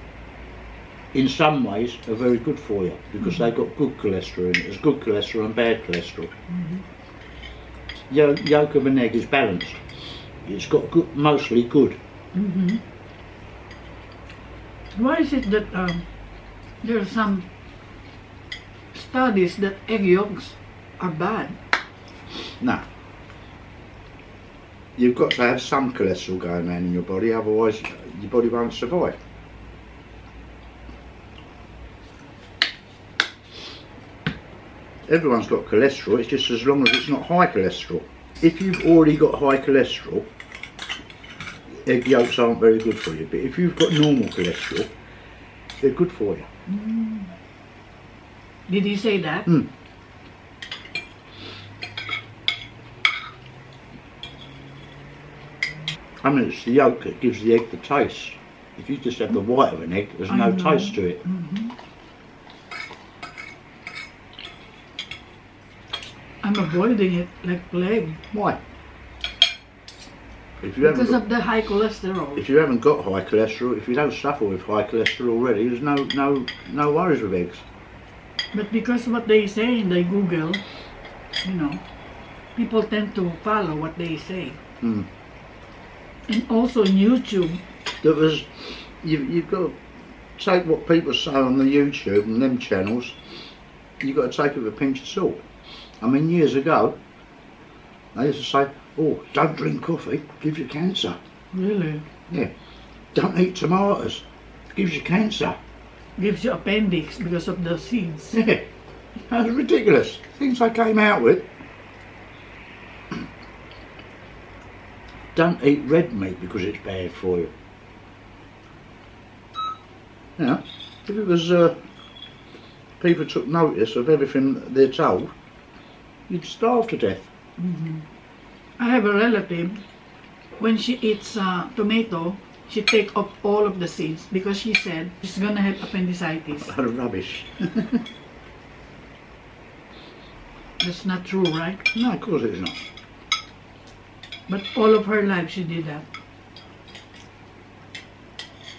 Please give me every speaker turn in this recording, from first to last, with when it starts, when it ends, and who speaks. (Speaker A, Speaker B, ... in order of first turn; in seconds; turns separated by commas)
Speaker A: 1.1-6.3, Speaker B: 6.5-6.8, Speaker A: 8.1-9.9, Speaker A: 10.4-12.0, Speaker B: 12.3-12.8, Speaker B: 14.9-16.1, Speaker B: 16.8-17.5, Speaker B: 18.9-21.6, Speaker A: 22.6-22.9, Speaker A: 25.0-29.2, Speaker A: 35.0-40.3, Speaker A: 41.7-44.9, Speaker A: 45.8-46.5, Speaker B: 46.7-47.3, Speaker B: 48.7-49.5, Speaker A: 56.2-61.2, Speaker B: 60.3-61.7, Speaker B: 66.4-68.2, Speaker A: 68.3-68.6, Speaker A: 70.6-71.2, Speaker B: 70.8-72.4, Speaker A: 72.3-77.7, Speaker B: 78.5-80.6, Speaker B: 81.4-81.8, Speaker B: 82.5-84.6, Speaker A: 84.8-85.1, Speaker B: 86.3-87.6, Speaker A: 88.0-89.8, Speaker A: 90.3-93.2, Speaker A: 94.0-95.5, Speaker A: 96.0-97.0, Speaker A: 98.1-101.2, Speaker B: 101.5-102.0, Speaker A: 103.1-105.6, Speaker B: 106.2-108.4, Speaker A: 108.3-111.5, Speaker A: 115.3-117.5, Speaker A: 120.4-121.8, Speaker A: 123.0-125.3, Speaker A: 126.3-127.3, Speaker B: 127.6-128.0, Speaker B: 128.8-129.8, Speaker B: 130.6-136.8, Speaker A: 136.7-138.1, Speaker B: 140.8-141.8, Speaker A: 141.9-142.8, Speaker B: 144.5-146.1